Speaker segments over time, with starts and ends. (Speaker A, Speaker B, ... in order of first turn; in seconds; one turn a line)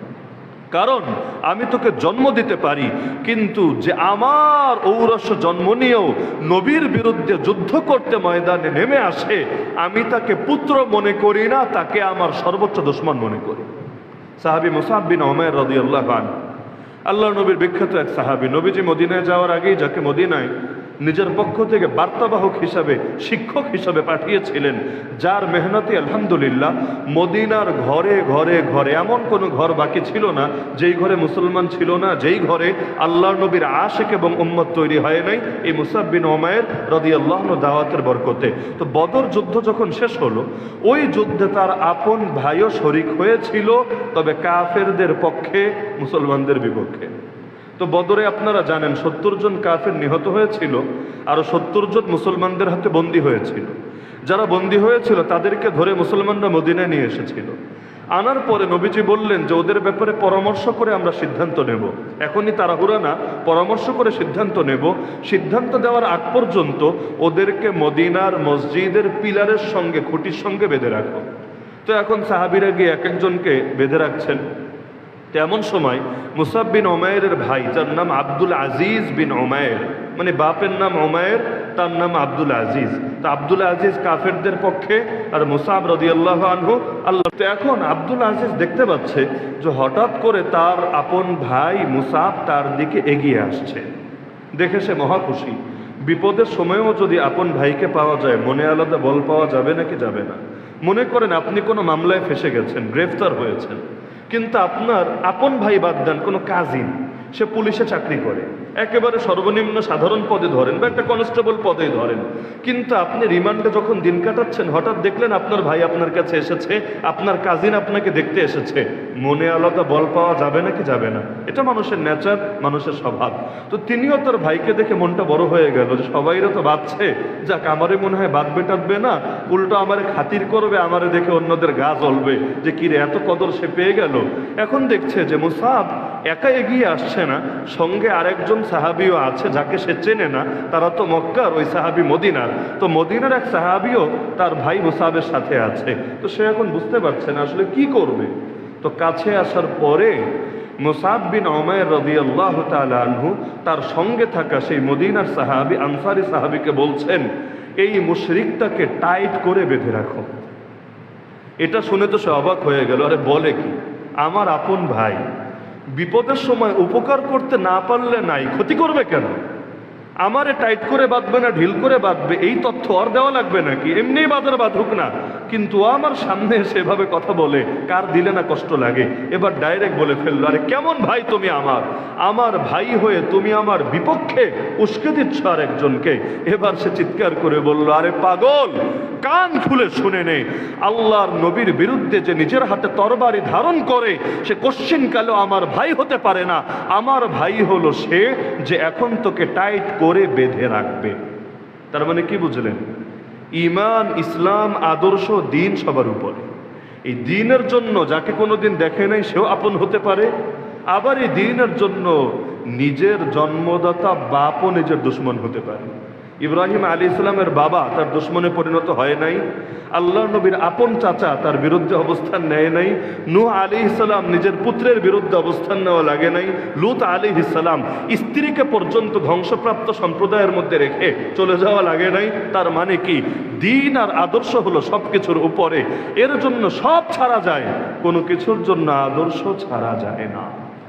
Speaker A: 0.7-13.7
Speaker A: 14.4-16.3
Speaker A: 17.1-47.1
Speaker A: 47.8-53.7
Speaker A: 54.3-57.5
Speaker A: 58.1-71.2
Speaker A: 71.8-74.4
Speaker A: 75.3-93.8
Speaker A: 94.5-150.2
Speaker A: 150.8-157.3
Speaker A: 157.8-160.3
Speaker A: 161.6-165.2
Speaker A: 165.9-169.4
Speaker A: 170.2-201.1
Speaker A: 201.9-202.8
Speaker A: 203.6-206.5
Speaker A: 207.0-210.3
Speaker A: 210.9-219.4
Speaker A: 219.9-240.5